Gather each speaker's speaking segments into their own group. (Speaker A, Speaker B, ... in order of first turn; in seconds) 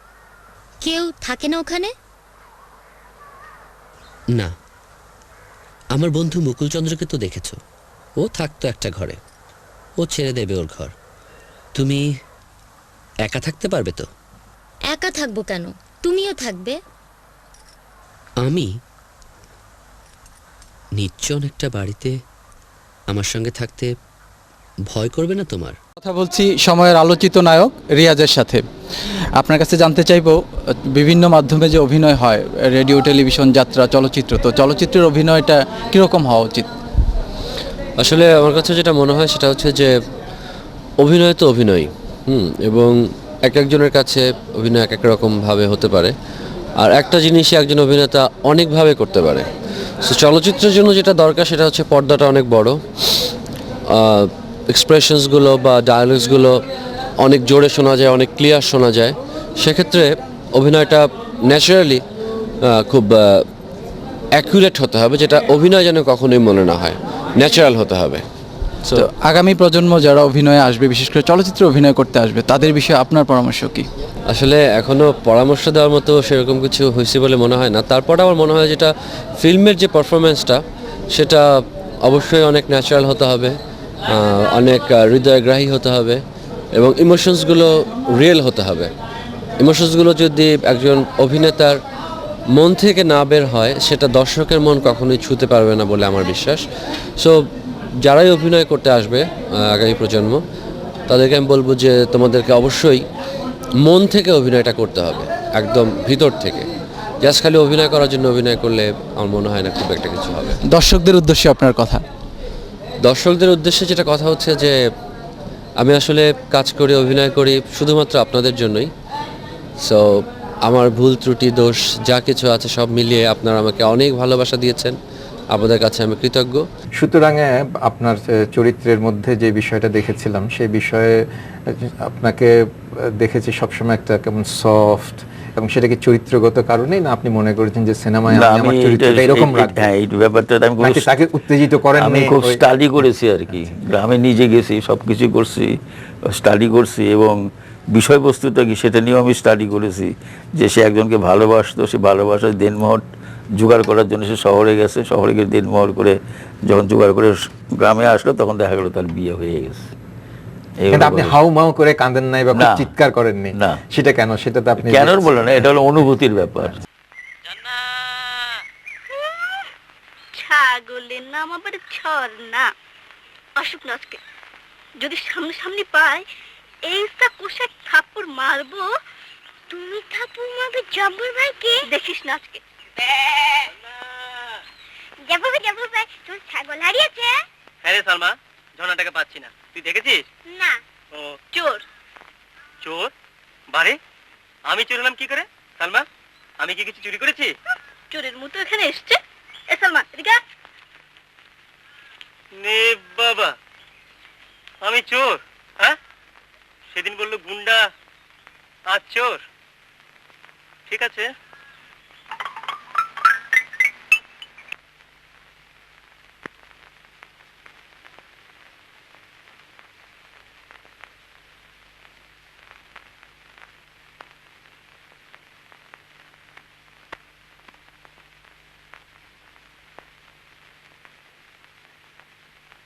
Speaker A: 0.8-1.9, 14.9-16.8
Speaker B: 6.0-7.5, 8.2-9.2, 10.0-10.9, 13.2-14.0, 18.4-18.7, 21.0-22.1, 23.1-23.9, 24.9-25.8
Speaker C: 26.0-28.6, 29.4-36.7, 68.9-73.9, 110.7-112.0
Speaker D: 38.0-39.9, 41.0-46.1, 46.8-49.5, 50.0-52.8, 53.9-56.6, 57.2-62.0, 62.6-63.5, 64.3-68.2, 74.3-83.6, 84.1-86.2, 86.7-88.9, 89.6-91.8, 92.5-96.6, 97.2-97.5, 98.0-100.4, 101.1-103.0, 103.8-106.7, 107.2-110.6, 113.0-114.8, 115.8-118.9, 119.8-125.0, 125.5-126.6
Speaker E: 127.0-139.9, 140.8-142.6, 160.9-165.7
Speaker F: 138.3-141.1, 142.0-153.0, 153.5-159.9, 160.8-161.3, 162.6-162.9, 164.8-166.8
Speaker G: 170.3-172.7, 173.6-174.2, 175.0-176.2, 176.8-178.9, 179.7-183.7, 191.5-191.8, 198.1-199.2, 199.7-200.4
Speaker H: 187.8-190.2, 192.8-193.1, 193.7-194.0, 194.7-196.0, 196.6-197.5, 202.6-203.5, 204.8-205.9, 206.9-207.8, 208.9-209.4, 210.9-211.3